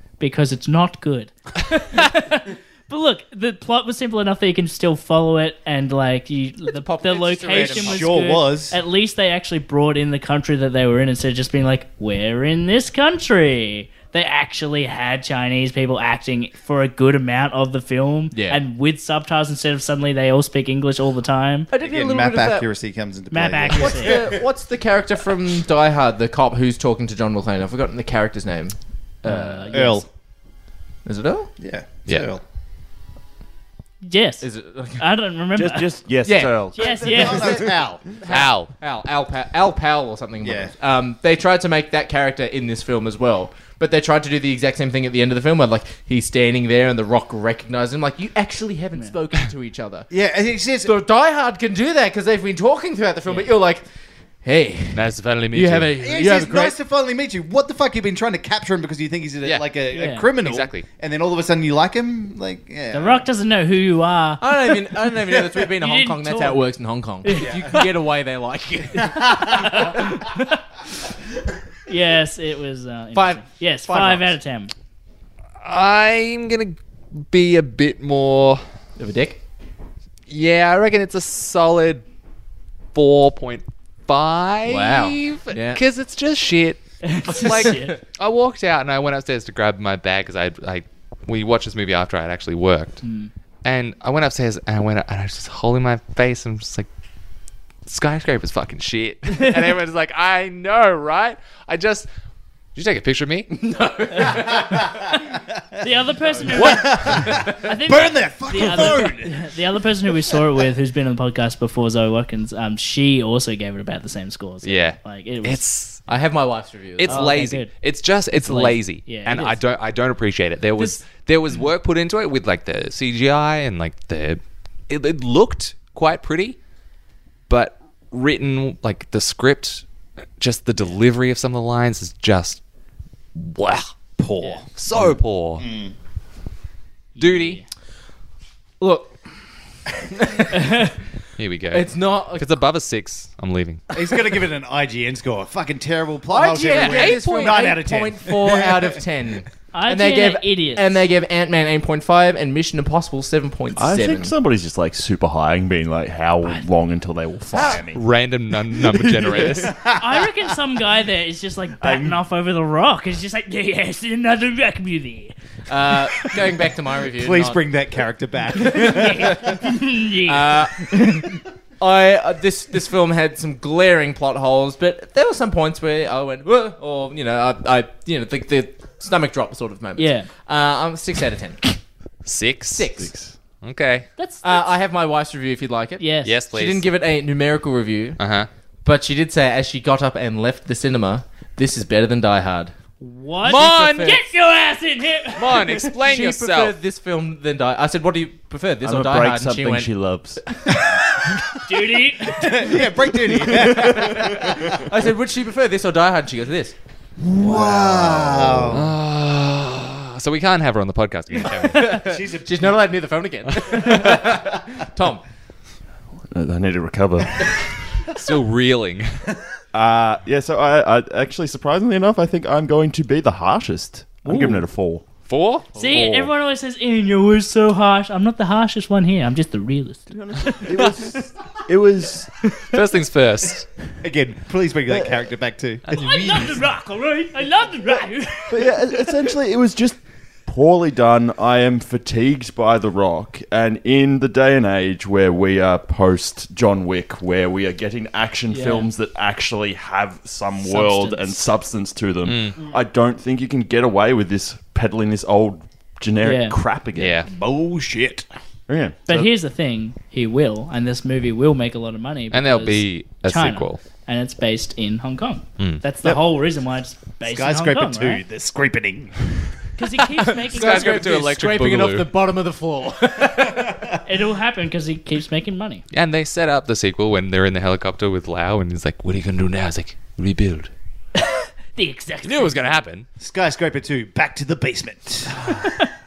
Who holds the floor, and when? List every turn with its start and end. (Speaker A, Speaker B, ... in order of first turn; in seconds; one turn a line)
Speaker A: 0.2-21.7
Speaker B: 6.6-8.3
Speaker C: 7.5-8.8
Speaker B: 18.3-18.6
Speaker B: 21.7-22.7
Speaker C: 21.8-24.4
Speaker A: 23.3-24.2
Speaker B: 23.7-29.8
Speaker A: 29.2-30.0
Speaker C: 29.7-30.1
Speaker B: 31.0-31.5
Speaker C: 31.6-32.4
Speaker A: 34.0-35.9
Speaker B: 34.4-35.0
Speaker D: 35.5-36.8
Speaker B: 36.2-37.7
Speaker A: 36.7-37.6
Speaker C: 36.8-38.2
Speaker B: 38.2-50.1
Speaker E: 38.3-38.7
Speaker C: 40.4-40.7
Speaker C: 50.1-50.9
Speaker B: 50.8-53.8
Speaker B: 54.4-56.7
Speaker E: 54.9-55.9
Speaker C: 56.0-63.2
Speaker A: 59.9-60.3
Speaker E: 60.4-60.8
Speaker A: 62.9-64.9
Speaker B: 64.4-69.9
Speaker A: 65.7-66.6
Speaker A: 67.2-67.9
Speaker C: 67.4-67.7
Speaker C: 69.0-69.8
Speaker A: 69.4-70.6
Speaker A: 71.9-74.7
Speaker B: 73.1-74.4
Speaker E: 75.6-78.6
Speaker B: 79.0-79.4
Speaker E: 80.3-82.0
Speaker E: 82.9-93.0
Speaker B: 84.7-85.8
Speaker A: 87.0-87.9
Speaker B: 87.4-88.0
Speaker A: 93.0-93.3
Speaker E: 93.6-96.9
Speaker E: 97.8-102.1
Speaker E: 102.7-103.5
Speaker B: 103.5-104.8
Speaker C: 104.7-105.0
Speaker A: 105.8-115.6
Speaker C: 106.5-109.5
Speaker B: 106.6-107.5
Speaker E: 114.6-116.0
Speaker B: 116.0-117.3
Speaker E: 117.0-126.6
Speaker A: 117.0-117.7
Speaker A: 118.3-119.6
Speaker E: 127.5-129.8
Speaker E: 130.4-132.6
Speaker E: 133.3-133.9
Speaker C: 134.2-134.6
Speaker E: 134.7-135.7
Speaker C: 135.6-135.9
Speaker A: 137.2-137.7
Speaker E: 137.2-137.6
Speaker B: 138.8-139.2
Speaker B: 140.1-140.9
Speaker A: 140.5-140.8
Speaker E: 141.4-143.8
Speaker B: 141.7-142.5
Speaker C: 143.9-149.0
Speaker B: 146.3-154.3
Speaker E: 146.7-147.5
Speaker A: 149.7-151.0
Speaker D: 153.8-158.0
Speaker C: 157.5-158.0
Speaker E: 157.8-159.8
Speaker C: 159.7-160.2
Speaker A: 159.9-165.3
Speaker B: 165.7-167.7
Speaker C: 167.1-169.6
Speaker A: 168.6-171.3
Speaker B: 168.7-169.6
Speaker B: 170.2-170.9
Speaker B: 171.8-181.7
Speaker A: 180.0-180.3
Speaker E: 182.2-182.9
Speaker B: 182.7-183.1
Speaker D: 183.0-183.3
Speaker E: 183.6-184.1
Speaker A: 184.2-184.8
Speaker B: 184.4-188.2
Speaker A: 186.0-186.4
Speaker E: 186.2-186.9
Speaker E: 188.2-188.5
Speaker B: 188.8-192.7
Speaker A: 193.0-195.7
Speaker B: 193.4-194.3
Speaker E: 193.5-194.1
Speaker E: 195.4-196.8
Speaker B: 196.0-199.9
Speaker D: 198.8-200.4
Speaker A: 201.7-202.6
Speaker C: 202.3-204.8
Speaker D: 203.8-204.4
Speaker B: 204.8-206.7
Speaker C: 207.3-208.9
Speaker D: 207.3-208.9
Speaker E: 208.7-212.0
Speaker B: 211.7-215.2
Speaker C: 211.9-212.8
Speaker E: 213.5-214.1
Speaker D: 216.3-217.7
Speaker E: 218.2-219.1
Speaker D: 219.7-225.1
Speaker B: 224.3-224.6
Speaker E: 225.2-226.1
Speaker A: 225.8-230.9
Speaker B: 225.8-226.1
Speaker D: 225.8-226.3
Speaker D: 230.1-232.3
Speaker E: 232.7-233.7
Speaker C: 234.0-235.9
Speaker D: 234.9-235.2
Speaker E: 235.9-236.5
Speaker A: 235.9-239.1
Speaker D: 238.5-257.2
Speaker A: 248.5-248.9
Speaker A: 250.6-251.4
Speaker E: 252.2-252.6
Speaker A: 256.2-256.6
Speaker E: 256.9-257.3
Speaker C: 257.3-258.3
Speaker D: 258.7-259.3
Speaker A: 259.1-268.2
Speaker E: 262.3-263.8
Speaker C: 267.2-269.3
Speaker A: 269.8-271.1
Speaker B: 270.2-273.7
Speaker E: 270.5-272.1
Speaker A: 274.0-275.8
Speaker E: 275.9-280.7
Speaker A: 281.2-282.8
Speaker E: 282.2-283.1
Speaker C: 283.2-285.4
Speaker A: 285.6-285.9